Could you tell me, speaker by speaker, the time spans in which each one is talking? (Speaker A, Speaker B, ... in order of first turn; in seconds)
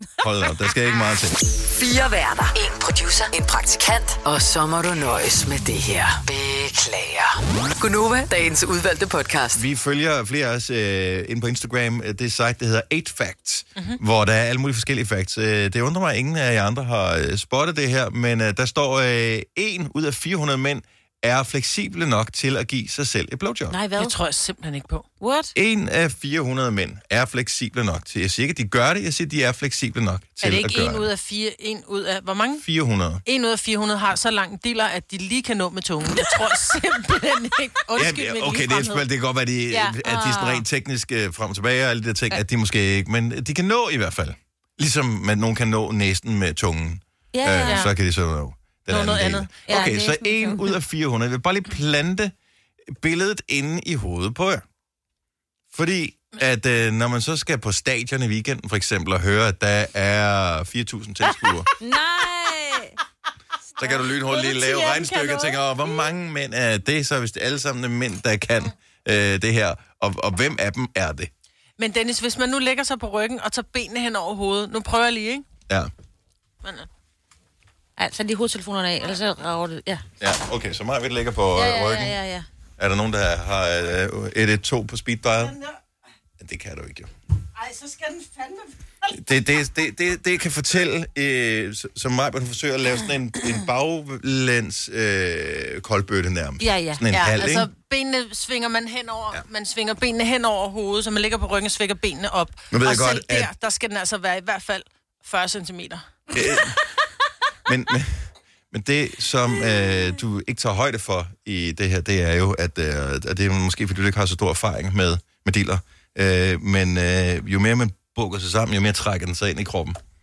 Speaker A: 0.2-1.4, 9.6-23.8, 25.6-31.1, 32.6-33.2, 38.0-52.3, 53.0-54.6, 55.7-61.7, 63.8-71.3, 80.2-82.2, 82.8-85.6, 86.4-87.1, 89.1-97.7, 102.7-103.5, 106.3-106.8, 107.7-120.0
Speaker B: 1.6-9.6
Speaker C: 23.7-24.2, 25.2-25.5, 39.8-40.5, 47.3-47.9, 49.7-50.7, 61.8-63.0, 78.0-80.0, 81.5-82.5, 96.6-97.0
Speaker D: 23.9-25.1, 30.4-32.6, 33.3-39.0, 47.7-47.9, 48.9-49.6, 63.9-65.6, 71.8-75.5, 76.6-76.9, 87.6-89.1, 97.1-106.0